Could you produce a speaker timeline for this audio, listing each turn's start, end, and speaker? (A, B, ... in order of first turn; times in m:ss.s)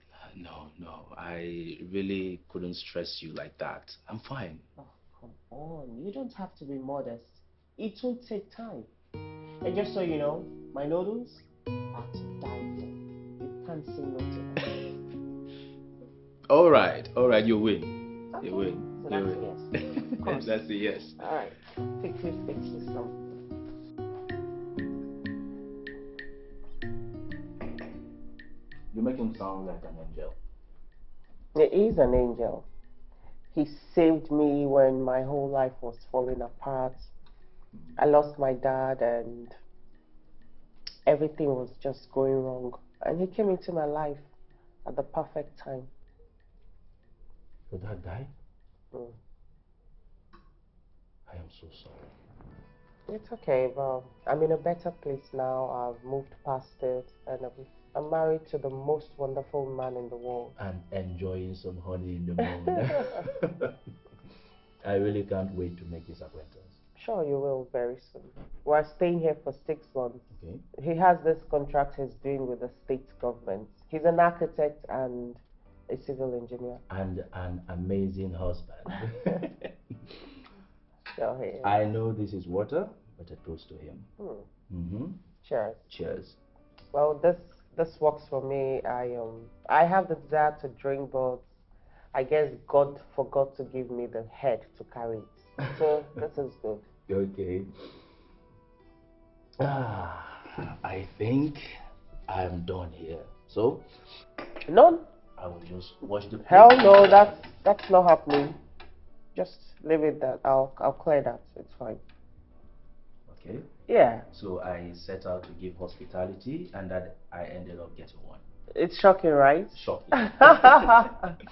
0:00.2-0:04.7 A
0:04.8-0:08.9 B
0:09.6-0:14.7 B
0:16.5-0:21.2 A
0:18.3-0:20.6 B
0:21.2-0:23.3 B
0:28.9-0:30.4 A
0:31.6-0:32.7 B
0:33.5-0:37.1 B
0:38.0-0:39.6 B
0:41.1-0:44.3 B
0:44.8-0:45.9 B
0:47.7-0:48.3 A
0:48.9-0:49.2 B
0:51.3-0:52.1 A
0:53.1-1:00.6 B
1:00.6-1:03.7 A
1:04.8-1:06.8 A
1:07.0-1:10.3 B
1:10.3-1:10.6 A
1:10.8-1:16.8 B
1:16.9-1:19.7 A
1:21.2-1:21.8 B
1:21.6-1:24.1 A
1:24.2-1:24.5 B
1:24.7-1:25.2 A
1:25.4-1:25.8 B
1:25.9-1:26.4 A
1:26.9-1:31.5 B
1:32.1-1:36.9 B
1:37.1-1:37.7 A
1:39.6-1:41.6 A
1:42.3-1:43.9 A
1:44.7-1:45.1 B
1:45.4-1:47.4 A
1:46.5-1:48.6 B
1:49.4-1:52.0 B
1:53.3-1:53.7 A
1:53.9-1:54.2 B
1:54.3-1:58.4 A
1:58.7-2:01.4 B
1:59.7-2:01.1 A